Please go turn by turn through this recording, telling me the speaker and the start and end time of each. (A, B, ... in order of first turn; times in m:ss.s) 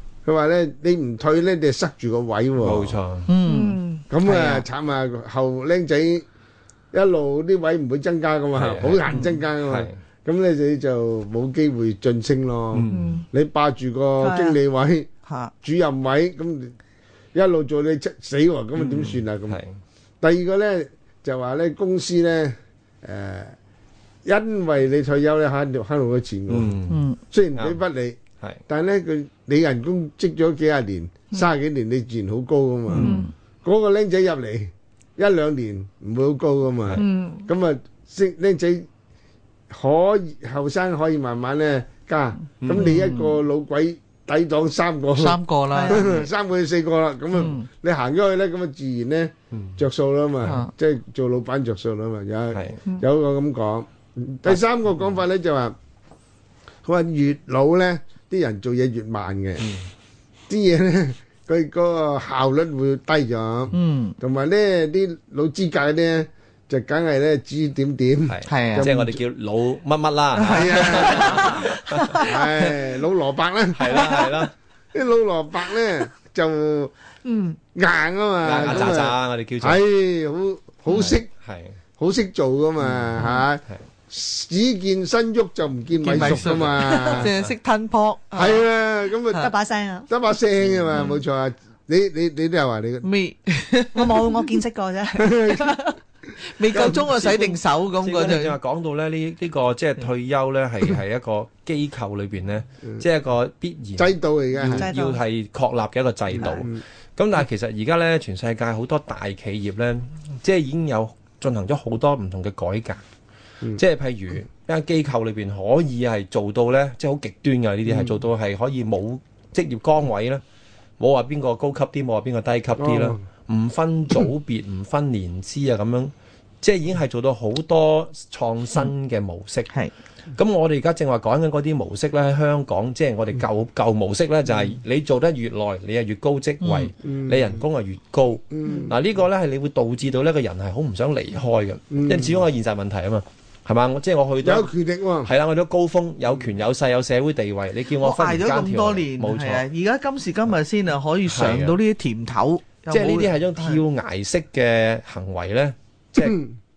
0:00.2-0:03.0 A
0:02.6-0:03.3 B
0:03.3-0:04.6 C
0:03.4-0:04.0 D
0:04.1-0:06.2 A
0:06.9-0:15.1 A
0:08.5-0:09.1 B
0:09.6-0:10.0 B
0:12.7-0:13.1 B
0:12.9-0:13.3 D
0:14.2-0:14.6 D
0:15.3-0:15.5 C
0:15.6-0:16.8 A
0:17.3-0:19.6 A
0:18.8-0:19.8 B
0:20.2-0:23.5 A
0:24.2-0:26.8 A
0:26.5-0:27.0 B
0:26.9-0:27.2 C
0:27.3-0:38.8 A
0:32.9-0:33.2 C
0:33.0-0:33.3 B
0:37.0-0:37.5 D
0:39.7-0:55.8 A
0:42.6-0:42.9 B
0:42.8-0:43.4 C
0:45.2-0:46.1 C
0:45.7-0:46.1 D
0:47.4-0:47.7 C
0:52.5-0:52.8 B
0:56.8-0:59.7 A
0:59.6-0:59.9 B
1:00.5-1:09.2 A
1:03.7-1:04.2 C
1:08.3-1:12.3 B
1:08.5-1:08.9 C
1:10.4-1:11.4 C
1:10.5-1:11.5 A
1:11.2-1:12.2 D
1:12.2-1:14.2 A
1:13.8-1:14.5 B
1:14.9-1:16.9 A
1:17.2-1:17.6 D
1:17.8-1:21.3 A
1:18.4-1:19.8 B
1:20.9-1:21.8 B
1:22.0-1:27.3 A
1:22.8-1:23.8 B
1:26.0-1:28.6 C
1:27.2-1:27.5 B
1:28.3-1:29.5 A
1:29.3-1:30.1 D
1:30.1-1:33.1 A
1:33.0-1:34.4 C
1:33.9-1:35.9 D
1:35.2-1:35.8 A
1:36.4-1:38.6 C
1:36.7-1:37.0 A
1:37.1-1:53.0 B
1:44.0-1:44.9 A
1:44.8-1:45.2 D
1:46.4-1:46.8 A
1:53.8-2:00.4 B
2:01.0-2:09.7 B
2:02.8-2:03.2 A
2:10.4-2:24.7 B
2:16.6-2:16.9 C
2:17.0-2:17.6 A
2:18.5-2:19.0 A
2:21.9-2:22.4 A
2:24.4-2:25.3 A
2:25.2-2:29.7 B
2:28.0-2:33.8 C
2:31.3-2:31.8 B
2:32.9-2:36.5 B